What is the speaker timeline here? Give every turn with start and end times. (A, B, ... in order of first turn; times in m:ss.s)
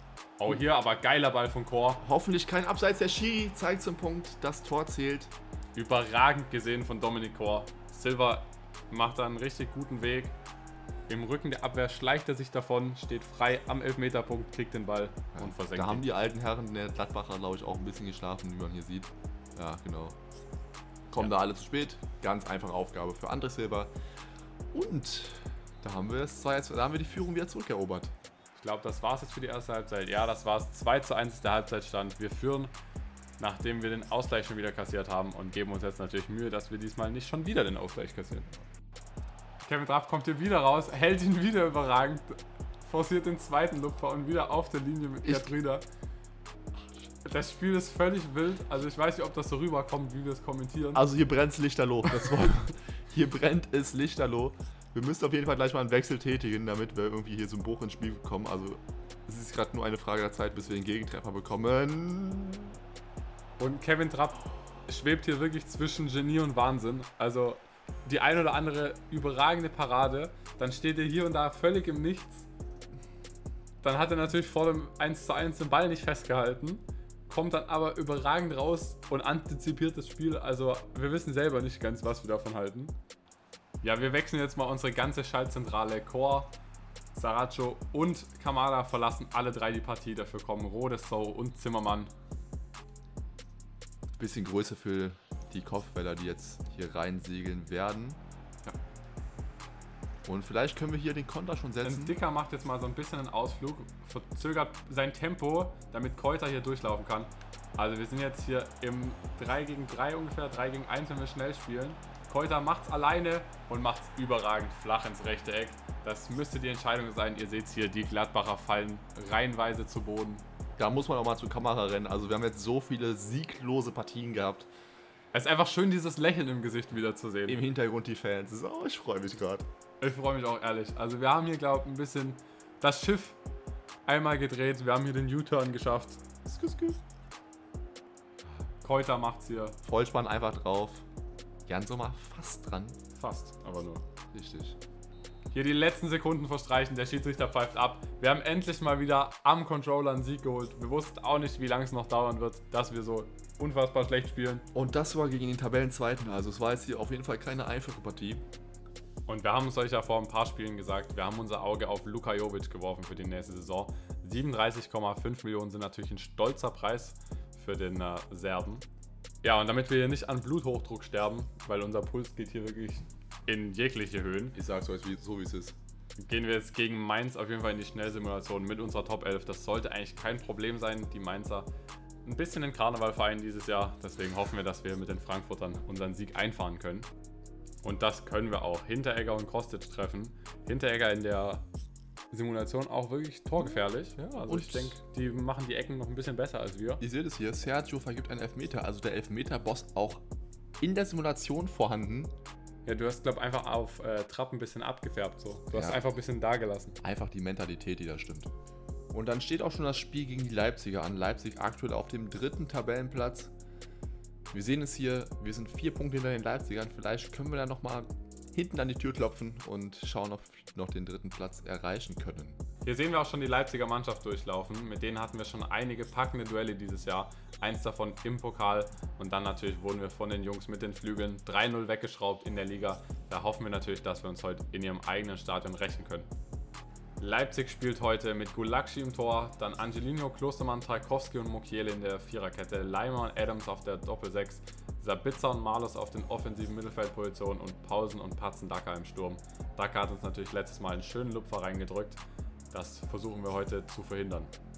0:00.4-0:02.0 A
0:02.0-0:05.3 B
0:05.7-0:10.4 A
0:11.1-0:16.0 A
0:15.3-0:20.2 B
0:21.1-0:23.9 B
0:24.7-0:28.1 B
0:28.6-0:32.7 A
0:33.4-0:38.6 A
0:39.6-0:45.8 A
0:47.2-0:51.0 A
0:50.9-1:02.8 B
1:03.6-1:12.5 A
1:13.8-1:22.9 A
1:23.8-1:26.5 A
1:27.1-1:32.1 A
1:34.2-1:38.2 B
1:40.2-1:42.1 B
1:41.8-2:00.4 A
2:00.8-2:04.7 B
2:05.3-2:07.6 A
2:07.5-2:09.7 B
2:10.0-2:13.4 A
2:14.0-2:16.2 A
2:16.4-2:17.0 B
2:18.8-2:19.8 A
2:19.8-2:21.0 B
2:21.7-2:23.0 B
2:23.1-2:24.0 A
2:24.3-2:24.8 B
2:25.5-2:34.7 A
2:34.7-2:38.4 B
2:39.2-2:48.8 A
2:49.4-2:54.6 A
2:54.5-2:55.8 B
2:56.2-3:01.7 A
3:02.2-3:07.1 A
3:07.8-3:11.6 A
3:12.3-3:17.0 A
3:13.6-3:15.0 B
3:17.0-3:20.2 B
3:20.8-3:22.3 B
3:22.8-3:27.0 A
3:25.7-3:26.0 B
3:27.0-3:28.5 B
3:29.1-3:33.5 B
3:34.5-3:42.6 B
3:42.8-3:56.3 A
3:57.2-4:12.2 A
4:12.7-4:14.5 A